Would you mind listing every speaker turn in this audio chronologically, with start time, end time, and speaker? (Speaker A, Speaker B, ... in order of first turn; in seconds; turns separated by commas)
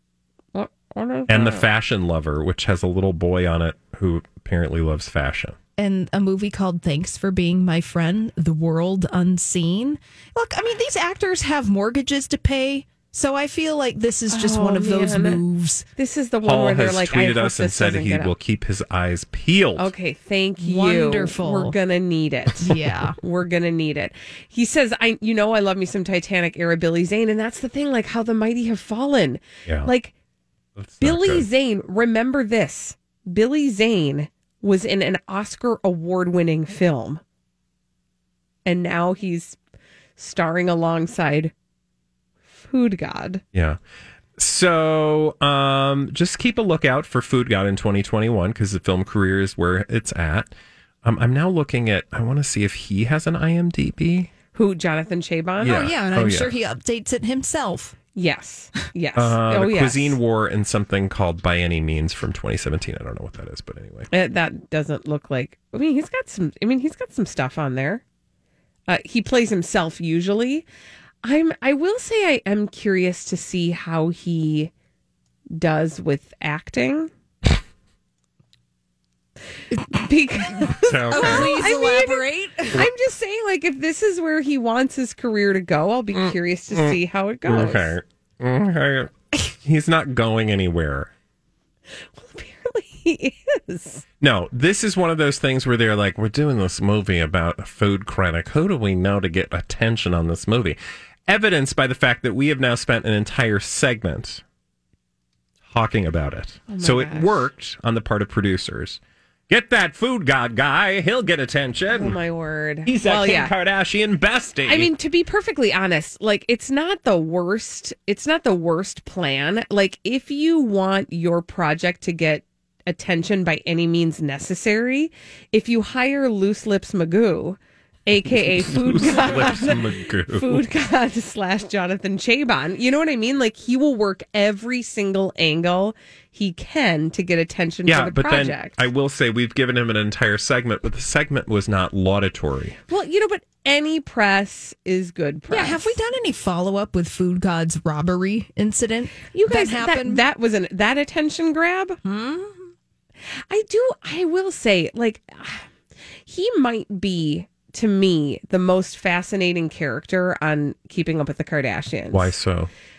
Speaker A: 0.5-1.7, Speaker B: 1.3-5.5, Speaker C: 5.8-15.9, Speaker A: 14.3-15.4, Speaker A: 15.9-18.3, Speaker B: 16.4-19.9, Speaker A: 19.7-30.1, Speaker C: 20.6-21.8, Speaker C: 22.6-23.1, Speaker B: 30.8-31.5, Speaker A: 31.0-37.2, Speaker A: 38.6-39.6, Speaker A: 40.2-41.5, Speaker A: 42.5-43.4, Speaker B: 44.4-54.3, Speaker A: 54.5-55.9, Speaker C: 55.6-58.0, Speaker B: 55.6-56.5, Speaker A: 58.1-60.2, Speaker B: 59.1-64.1, Speaker A: 64.1-68.0, Speaker A: 68.9-70.7, Speaker A: 71.2-74.7, Speaker A: 75.5-77.1, Speaker A: 79.9-88.0, Speaker B: 80.8-81.6, Speaker C: 81.1-82.9, Speaker B: 86.1-91.1, Speaker A: 92.1-94.0, Speaker B: 94.2-104.4, Speaker B: 105.7-112.2, Speaker A: 106.7-107.5, Speaker A: 111.9-113.5, Speaker B: 112.8-114.9, Speaker A: 114.6-138.8, Speaker B: 128.3-130.7, Speaker B: 137.8-142.8, Speaker A: 142.9-146.0, Speaker C: 145.5-150.2, Speaker A: 149.3-152.0, Speaker C: 152.0-152.7, Speaker A: 153.5-155.7, Speaker A: 156.2-162.3, Speaker B: 162.1-162.7